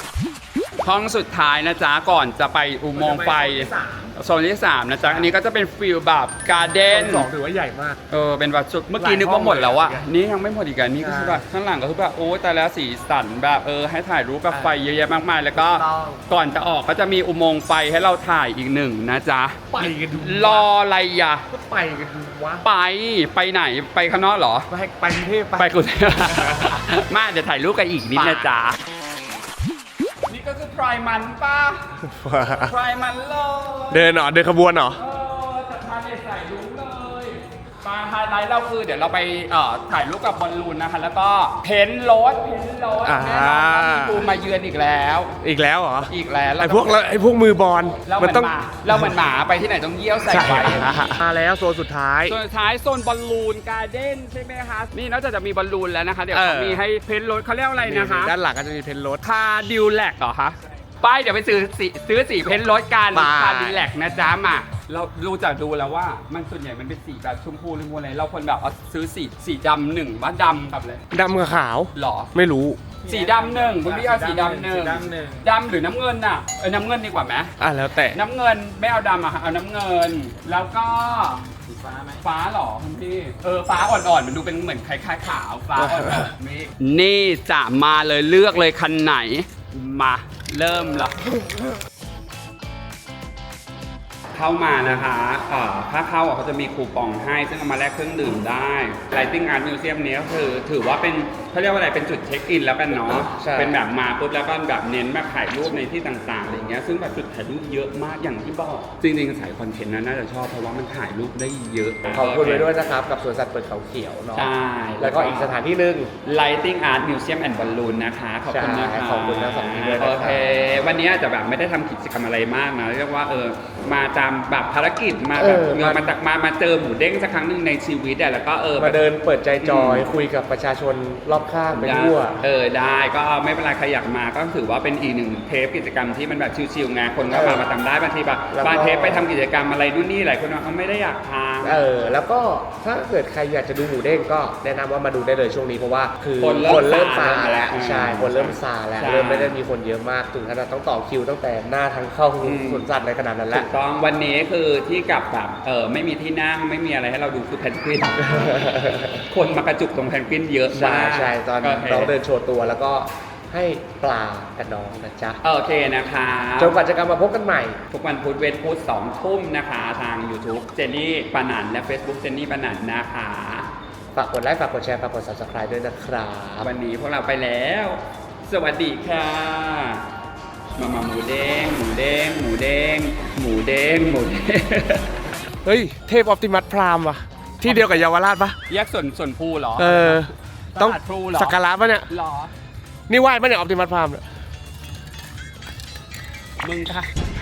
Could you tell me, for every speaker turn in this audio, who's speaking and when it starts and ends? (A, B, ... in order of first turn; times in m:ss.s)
0:00.8-0:07.3 A
0:02.9-0:04.1 B
0:05.0-0:05.3 B
0:06.6-0:08.0 B
0:08.1-0:21.4 A
0:08.9-0:10.1 B
0:11.0-0:11.4 B
0:14.5-0:14.8 B
0:15.5-0:16.2 B
0:19.7-0:20.7 B
0:21.5-0:22.6 B
0:22.6-0:24.7 A
0:24.7-0:26.8 B
0:25.6-0:28.8 A
0:28.1-0:28.5 B
0:30.3-0:34.1 A
0:32.0-0:32.7 B
0:33.9-0:35.0 B
0:34.9-0:45.4 A
0:43.0-0:44.3 B
0:45.4-0:49.2 B
0:46.1-0:47.0 A
0:48.0-0:50.9 A
0:50.3-0:52.4 B
0:52.3-0:58.3 A
0:56.3-0:56.8 B
0:57.8-0:59.2 B
0:59.2-1:11.0 A
1:03.1-1:03.9 B
1:11.1-1:12.8 B
1:12.0-1:12.3 A
1:13.0-1:15.4 C
1:13.0-1:17.5 A
1:17.6-1:18.2 B
1:18.1-1:21.5 A
1:21.6-1:22.2 C
1:22.2-1:31.2 A
1:25.8-1:26.3 B
1:34.3-1:52.7 A
1:43.2-1:43.8 B
1:52.1-1:56.1 B
1:54.4-1:55.5 A
1:56.2-2:09.0 A
1:58.5-2:00.6 B
2:05.4-2:06.1 B
2:08.8-2:12.4 B
2:09.6-2:10.1 A
2:11.7-2:21.8 A
2:17.3-2:17.6 B
2:18.5-2:19.3 B
2:21.6-2:33.7 B
2:26.4-2:29.6 A
2:32.4-2:32.8 A
2:33.5-2:38.6 A
2:38.2-2:39.2 B
2:39.2-2:42.1 A
2:40.7-2:45.4 B
2:45.4-2:46.8 A
2:46.6-2:47.8 B
2:47.9-2:53.7 A
2:54.1-2:56.7 B
2:56.6-3:00.0 A
3:00.8-3:05.2 A
3:05.6-3:08.6 B
3:07.6-3:08.0 A
3:08.7-3:12.5 A
3:09.8-3:12.1 B
3:13.1-3:14.2 B
3:16.6-3:17.1 A